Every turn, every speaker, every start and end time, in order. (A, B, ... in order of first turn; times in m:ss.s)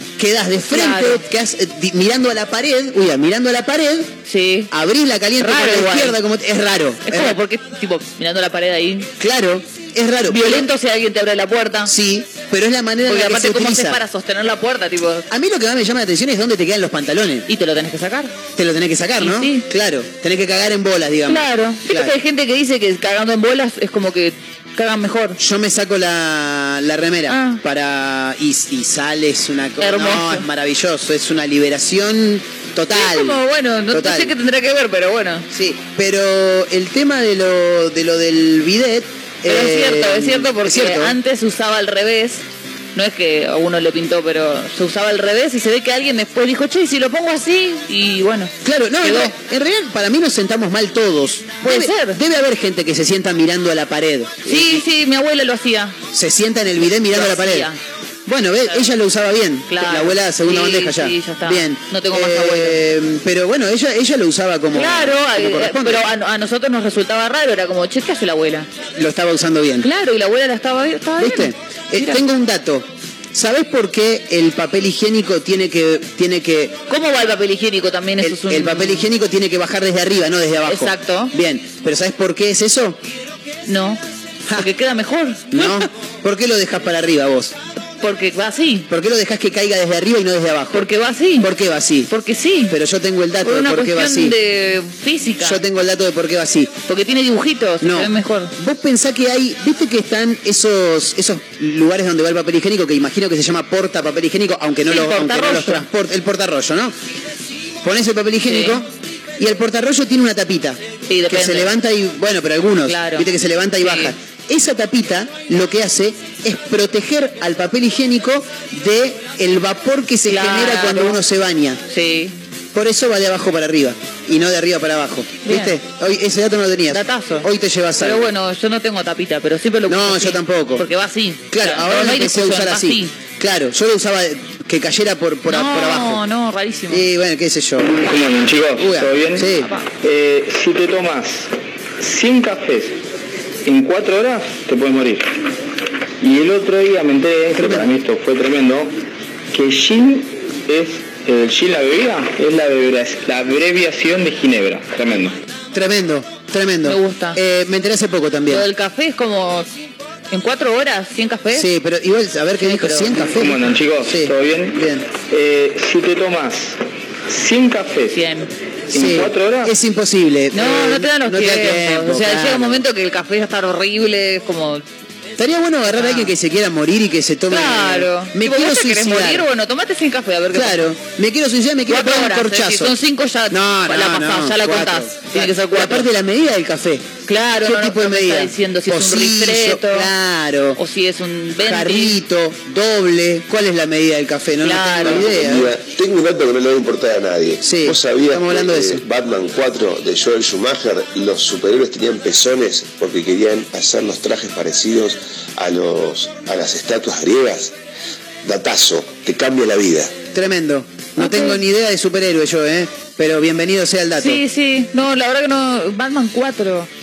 0:00.2-0:04.1 A
0:00.7-0:01.2 B
0:04.3-0:04.7 B
0:04.7-0:07.4 A
0:05.4-0:06.2 B
0:07.1-0:09.1 B
0:09.2-0:10.7 A
0:10.3-0:11.9 B
0:11.9-0:14.0 A
0:13.0-0:15.3 B
0:15.3-0:17.5 A
0:17.5-0:18.3 B
0:18.6-0:22.2 A
0:19.2-0:19.7 B
0:21.3-0:25.4 B
0:25.4-0:34.4 A
0:27.3-0:27.6 B
0:29.8-0:30.5 B
0:32.9-0:35.5 B
0:35.5-0:41.2 A
0:39.5-0:42.4 B
0:43.0-0:49.3 B
0:48.6-0:54.8 A
0:51.6-0:52.2 B
0:54.4-0:56.0 B
0:56.1-0:57.7 A
0:56.9-0:57.8 B
0:58.3-1:06.1 A
0:59.7-1:02.8 B
1:04.7-1:08.7 B
1:09.0-1:09.9 A
1:09.8-1:12.2 B
1:11.2-1:16.8 A
1:16.9-1:19.1 B
1:18.2-1:23.0 A
1:20.7-1:21.3 B
1:23.7-1:24.0 B
1:24.5-1:25.9 B
1:25.5-1:27.6 A
1:28.0-1:28.9 B
1:28.9-1:30.9 A
1:30.7-1:31.5 B
1:31.4-1:32.1 A
1:32.1-1:32.8 B
1:32.7-1:34.4 A
1:33.4-1:35.6 B
1:35.4-1:36.8 A
1:36.9-1:38.5 B
1:37.8-1:46.9 A
1:44.9-1:45.9 B
1:47.8-2:01.8 A
1:48.5-1:48.8 B
1:51.1-1:51.8 B
1:52.9-1:53.3 B
1:53.8-1:54.1 B
2:00.3-2:01.2 B
2:01.9-2:02.4 B
2:02.7-2:08.3 A
2:05.4-2:05.8 B
2:06.9-2:07.5 B
2:08.0-2:13.1 B
2:09.9-2:10.9 A
2:11.5-2:16.2 A
2:15.5-2:17.1 B
2:16.9-2:18.0 A
2:17.8-2:23.0 C
2:18.8-2:19.7 A
2:23.6-2:25.3 C
2:26.2-2:29.0 C
2:27.6-2:27.9 A
2:29.5-2:35.4 C
2:35.7-2:38.7 A
2:36.8-2:37.4 B
2:38.5-2:39.7 B
2:40.3-2:41.7 B
2:41.5-2:45.1 A
2:42.6-2:43.4 B
2:43.2-2:48.2 C
2:48.1-2:48.5 B
2:48.9-2:49.7 C
2:48.9-2:52.8 A
2:50.5-2:54.8 B
2:55.4-2:59.5 A
2:55.9-2:56.3 B
2:57.5-3:00.9 B
3:00.5-3:03.0 A
3:01.9-3:06.1 B
3:03.5-3:10.8 A
3:07.3-3:10.1 B
3:10.8-3:12.2 B
3:11.6-3:15.8 A
3:14.6-3:15.4 B
3:15.0-3:27.7 D
3:17.6-3:19.0 A
3:28.4-3:30.2 D
3:30.3-3:34.4 A
3:31.2-3:31.6 B
3:34.2-3:36.9 B